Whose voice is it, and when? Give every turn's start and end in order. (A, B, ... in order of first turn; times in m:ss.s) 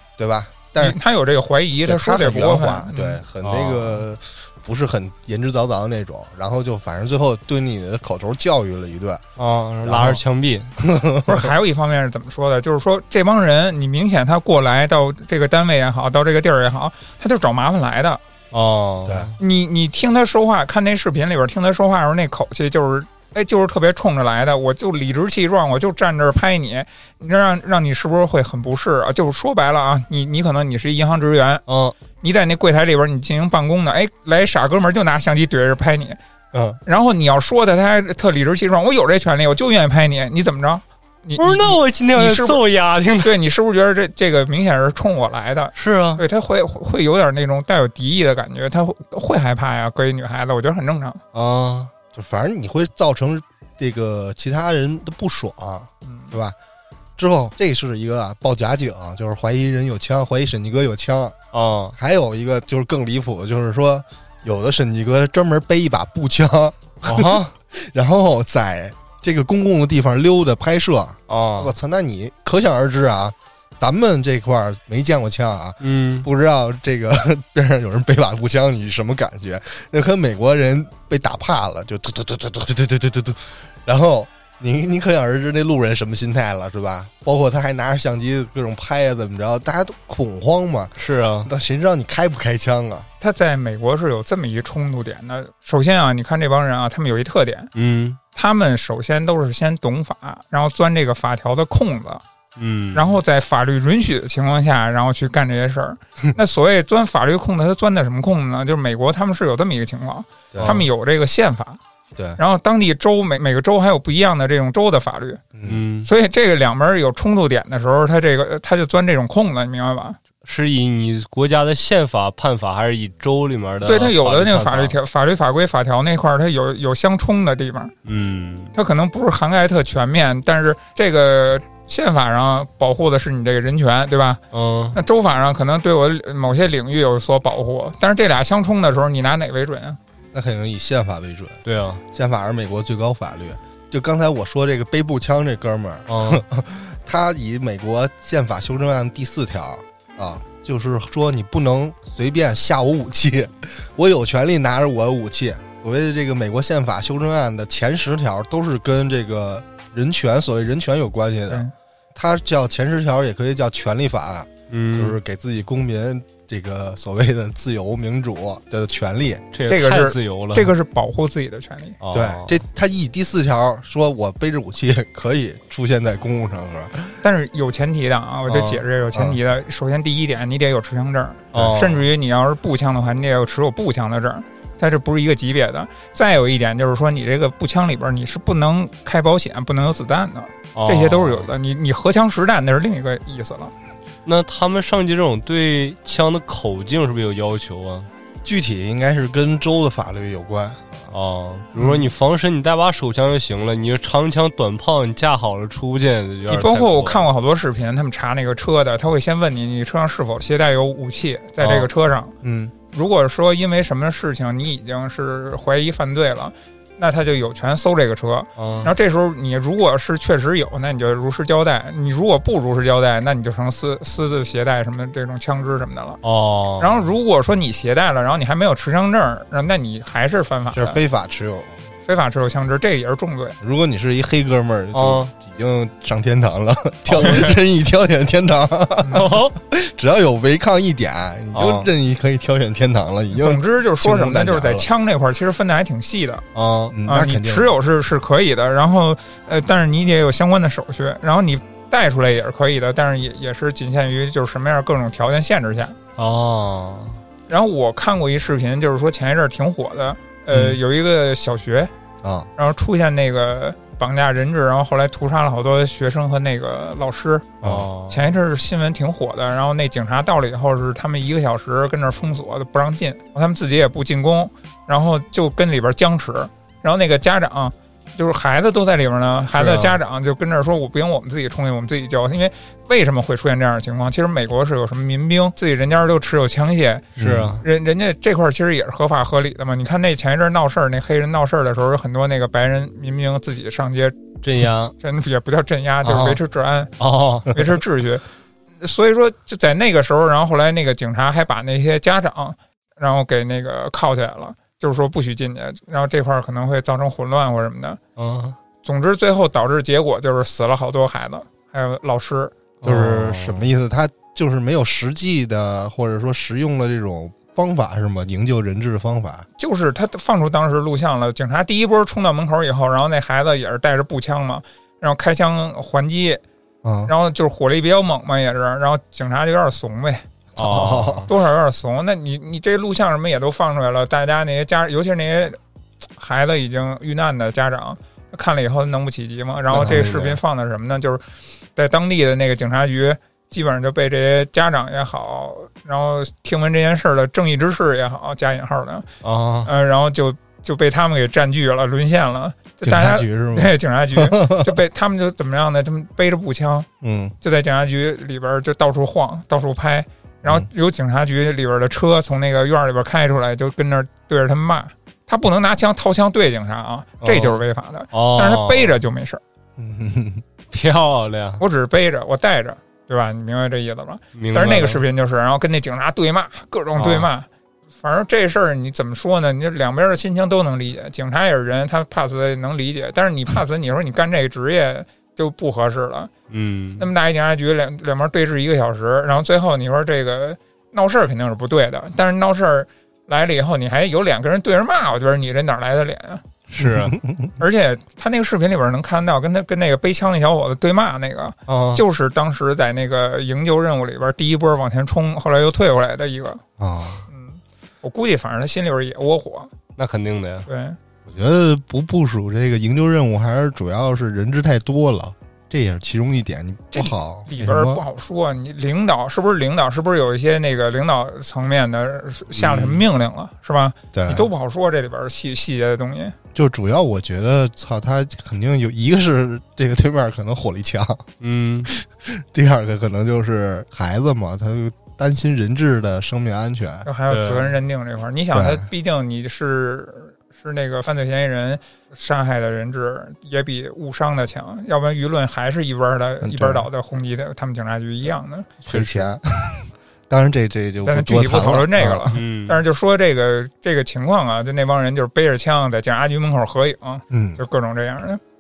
0:00.2-0:01.0 A
0:00.8-0:03.2 B
0:01.8-0:09.2 A
0:03.4-0:04.0 C
0:09.4-0:10.7 C
0:09.8-0:10.2 A
0:10.8-0:11.5 A
0:11.2-0:18.2 B
0:18.5-0:19.3 C
0:19.0-0:19.3 A
0:19.4-0:31.6 B
0:31.7-0:31.9 C
0:32.2-0:36.2 B
0:36.5-0:36.8 A
0:36.8-0:42.6 B
0:41.4-0:43.4 C
0:43.2-0:51.2 B
0:45.7-0:46.2 C
0:51.3-0:51.9 C
0:52.1-0:56.6 A
0:56.0-0:56.3 B
0:57.2-1:01.4 A
1:01.5-1:01.9 C
1:02.0-1:33.1 A
1:07.0-1:07.5 C
1:11.3-1:11.7 C
1:15.8-1:16.3 C
1:31.0-1:31.5 C
1:33.2-1:37.7 B
1:37.7-1:38.2 C
1:38.3-1:42.2 B
1:42.6-1:43.1 C
1:42.9-1:51.8 B
1:52.4-1:55.4 B
1:55.5-1:55.8 A
1:55.6-1:56.1 C
1:56.0-2:00.2 B
2:00.4-2:05.0 C
2:03.8-2:07.9 B
2:08.0-2:08.7 C
2:08.7-2:14.4 B
2:14.5-2:15.0 C
2:14.9-2:20.0 B
2:20.3-2:49.4 A
2:21.6-2:22.0 C
2:26.1-2:26.4 C
2:44.7-2:45.2 C
2:49.5-2:50.7 C
2:49.7-2:52.0 B
2:52.0-2:52.6 C
2:52.1-2:57.2 A
2:57.2-3:13.7 B
2:58.5-2:58.8 C
2:59.1-2:59.4 A
3:01.5-3:01.8 A
3:01.5-3:02.0 C
3:10.7-3:11.5 C
3:14.2-3:18.1 C
3:18.4-3:21.1 A
3:21.1-3:27.2 C
3:21.8-3:22.0 B
3:26.5-3:32.3 B
3:31.6-3:31.9 C
3:32.4-3:32.7 A
3:32.9-3:46.2 B
3:38.6-3:38.9 C
3:46.2-3:47.0 C
3:46.8-3:51.0 B
3:50.7-3:51.8 A
3:52.0-3:53.6 B
3:53.6-4:04.8 A
3:54.9-3:55.3 C
3:57.2-3:57.5 B
3:59.1-3:59.6 C
4:01.5-4:01.9 C
4:03.3-4:06.4 B
4:06.5-4:06.9 C
4:06.9-4:07.8 A
4:07.0-4:16.0 B
4:16.2-4:17.2 C
4:17.5-4:21.9 B
4:20.5-4:20.8 A
4:22.2-4:22.5 A
4:22.6-4:27.5 B
4:27.6-4:27.9 A
4:27.6-4:28.2 C
4:28.1-4:54.2 B
4:39.5-4:40.0 C
4:47.2-4:47.6 A
4:47.2-4:47.6 C
4:54.4-4:54.9 C
4:55.0-4:56.9 B
4:56.0-4:56.4 C
4:57.0-4:57.5 C
4:57.5-4:58.2 B
4:58.8-5:08.0 B
5:08.2-5:08.6 C
5:08.8-5:12.5 B
5:12.8-5:13.7 C
5:12.8-5:19.4 A
5:19.6-5:26.4 B
5:26.8-5:27.1 A
5:27.1-5:30.2 B
5:30.6-5:31.3 A
5:30.6-5:31.3 C
5:31.3-5:35.6 B
5:36.2-5:41.2 B
5:39.7-5:40.4 C
5:39.8-5:40.0 A
5:41.8-5:49.1 B
5:49.2-5:49.7 C
5:49.6-5:56.9 B
5:52.8-5:54.7 A
5:57.0-5:57.3 A
5:57.4-6:09.4 B
6:07.2-6:09.0 C
6:09.8-6:10.4 A
6:10.7-6:11.6 C
6:11.6-6:17.5 B
6:14.3-6:15.0 C
6:17.0-6:17.3 C
6:18.0-6:26.3 B
6:26.5-6:27.1 C
6:27.0-6:36.4 B
6:36.7-6:37.2 C
6:36.8-6:37.5 A
6:37.6-6:46.6 B
6:41.7-6:42.0 C
6:46.8-6:47.2 A
6:47.3-6:49.7 B
6:50.0-6:50.7 C
6:50.7-6:51.0 B
6:51.2-6:58.0 A
6:56.9-7:06.3 B
7:02.5-7:03.0 C
7:04.1-7:04.5 A
7:06.5-7:11.2 A
7:11.4-7:11.9 C
7:11.8-7:17.1 A
7:17.0-7:28.8 B
7:17.3-7:17.7 C
7:18.5-7:18.8 A
7:26.4-7:26.9 A
7:28.8-7:32.2 A
7:28.9-7:29.3 C
7:31.0-7:38.4 B
7:32.3-7:32.8 C
7:37.3-7:37.6 A